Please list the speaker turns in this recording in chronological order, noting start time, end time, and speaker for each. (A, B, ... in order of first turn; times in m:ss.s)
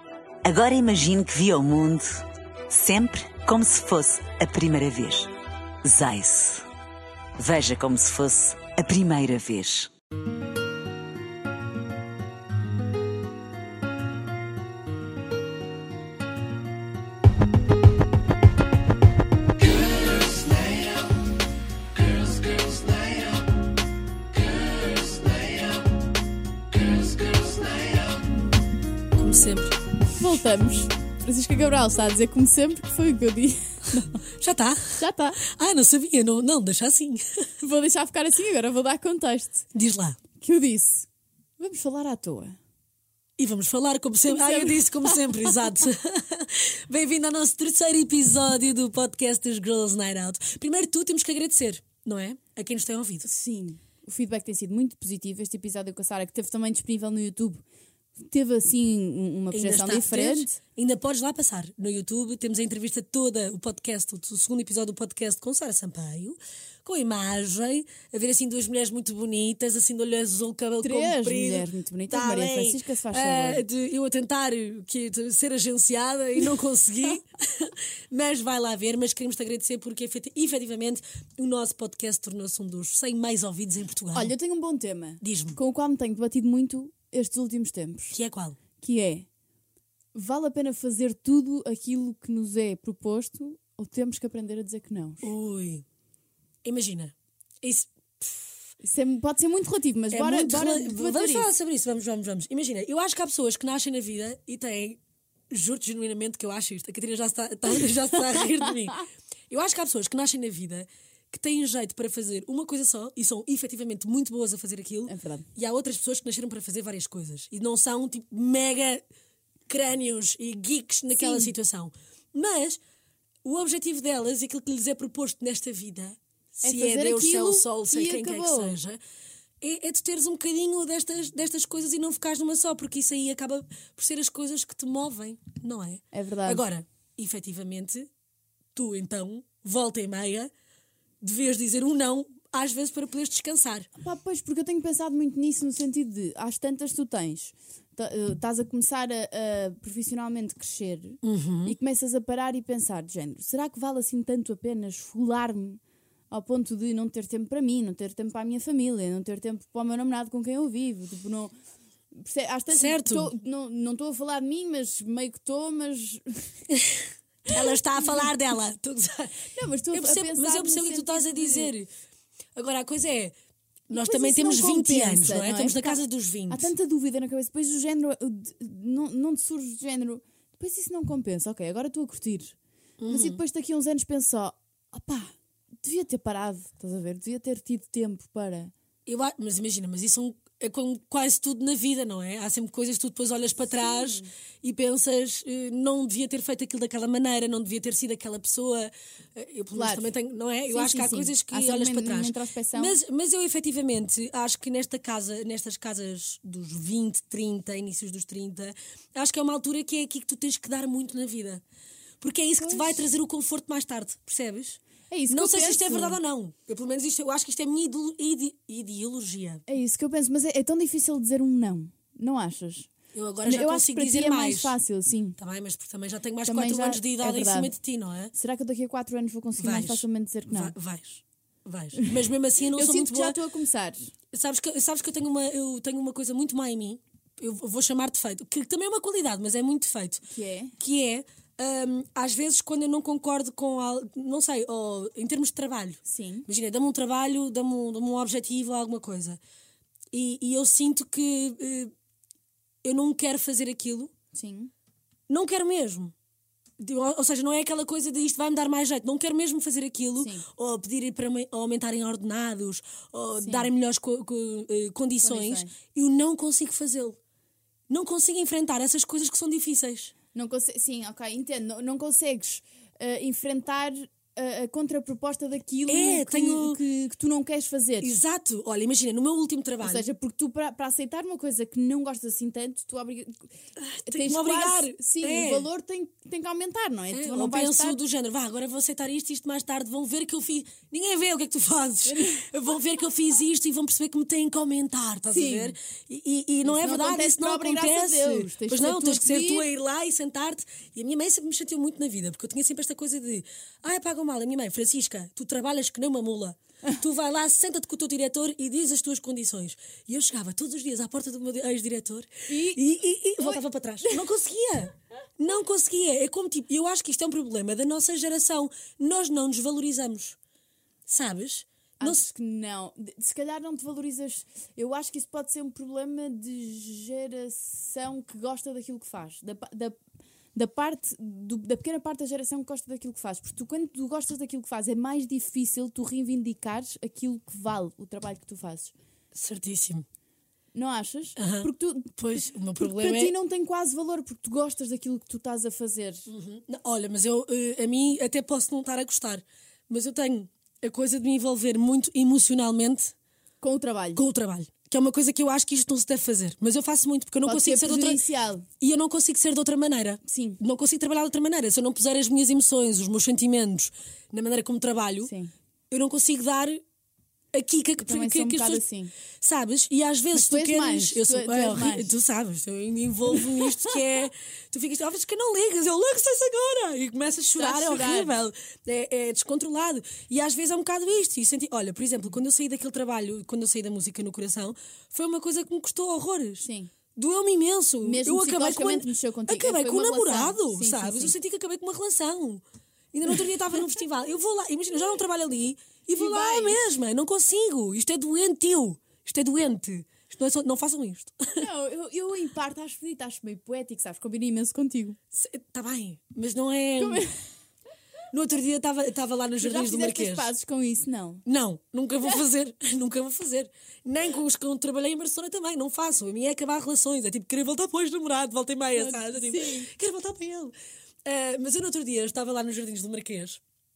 0:00.4-0:05.3 A
0:05.8-0:06.7 A
0:07.4-0:09.9 A
0:25.1-0:25.4 B
0:27.3-0:27.8 B
0:29.2-0:29.8 B
0:30.2-0:34.2 C
0:34.3-0:37.2 B
0:35.0-0:35.4 C
0:37.6-0:39.7 C
0:39.7-0:40.2 B
0:40.4-0:41.1 C
0:41.6-0:42.6 C
0:43.4-0:53.3 B
0:44.3-0:45.7 C
0:53.2-0:57.6 C
0:58.2-1:00.6 C
0:59.5-1:24.3 B
1:10.8-1:13.6 C
1:24.1-1:28.2 C
1:25.2-1:25.6 B
1:28.1-1:28.6 B
1:28.8-1:29.2 C
1:30.1-1:35.3 C
1:35.2-1:35.8 B
1:36.6-1:38.6 B
1:38.8-1:41.5 C
1:40.1-1:45.0 B
1:45.5-1:59.0 B
1:55.1-1:55.4 C
1:59.7-2:02.8 B
2:01.1-2:01.5 C
2:03.4-2:09.0 B
2:06.6-2:08.7 C
2:09.6-2:18.1 B
2:16.1-2:16.6 C
2:18.7-2:20.5 B
2:21.2-2:23.9 B
2:24.0-2:41.5 C
2:31.2-2:31.8 B
2:42.1-2:46.6 C
2:42.7-2:43.3 B
2:46.7-2:49.3 B
2:47.5-2:48.3 C
2:49.5-2:51.7 C
2:49.9-2:51.9 B
2:52.6-2:53.3 B
2:53.9-2:56.7 B
2:54.0-3:02.6 C
3:03.0-3:03.4 B
3:03.1-3:08.7 C
3:09.0-3:31.6 B
3:13.6-3:14.3 C
3:19.7-3:20.1 C
3:20.7-3:23.0 C
3:32.2-3:39.6 B
3:32.6-3:33.0 C
3:35.1-3:36.2 C
3:39.7-3:42.9 C
3:43.1-3:44.8 B
3:43.4-3:45.4 C
3:45.4-3:48.3 B
3:46.4-3:47.7 C
3:48.3-3:50.7 C
3:49.6-3:53.4 B
3:52.7-3:54.1 C
3:54.3-4:00.2 B
4:00.3-4:00.7 C
4:00.8-4:09.4 B
4:06.1-4:06.5 C
4:10.1-4:11.9 B
4:12.8-4:14.1 B
4:14.3-4:14.7 C
4:15.3-4:16.1 B
4:16.8-4:27.2 B
4:20.2-4:20.4 C
4:23.4-4:23.7 C
4:25.2-4:25.7 C
4:27.9-4:30.1 B
4:30.3-4:38.1 C
4:35.9-4:36.8 B
4:38.0-4:40.0 B
4:39.8-4:43.5 C
4:43.8-4:45.7 B
4:44.0-4:48.0 C
4:47.1-5:20.4 B
4:52.1-4:52.4 C
4:55.3-4:55.7 C
4:56.6-4:59.7 C
5:12.5-5:12.8 C
5:13.4-5:14.3 C
5:21.1-5:22.3 B
5:22.0-5:30.0 C
5:30.5-5:38.9 C
5:39.3-5:40.0 B
5:40.7-5:46.3 C
5:41.4-5:43.3 B
5:46.3-5:53.1 B
5:53.6-5:54.2 C
5:54.2-5:58.2 B
5:57.4-5:58.6 C
5:58.8-6:05.3 B
6:00.2-6:00.6 C
6:05.2-6:05.5 C
6:05.9-6:06.8 B
6:07.5-6:08.8 B
6:08.0-6:09.1 C
6:09.4-6:41.6 B
6:10.3-6:12.1 C
6:13.4-6:13.9 C
6:17.6-6:18.4 C
6:26.6-6:26.9 C
6:28.0-6:31.3 C
6:36.2-6:36.8 C
6:41.6-6:45.2 C
6:45.3-6:47.2 B
6:47.0-6:47.4 C
6:48.3-6:50.5 B
6:49.6-6:51.4 C
6:51.4-7:00.7 B
6:58.9-6:59.9 C
7:01.2-7:03.6 B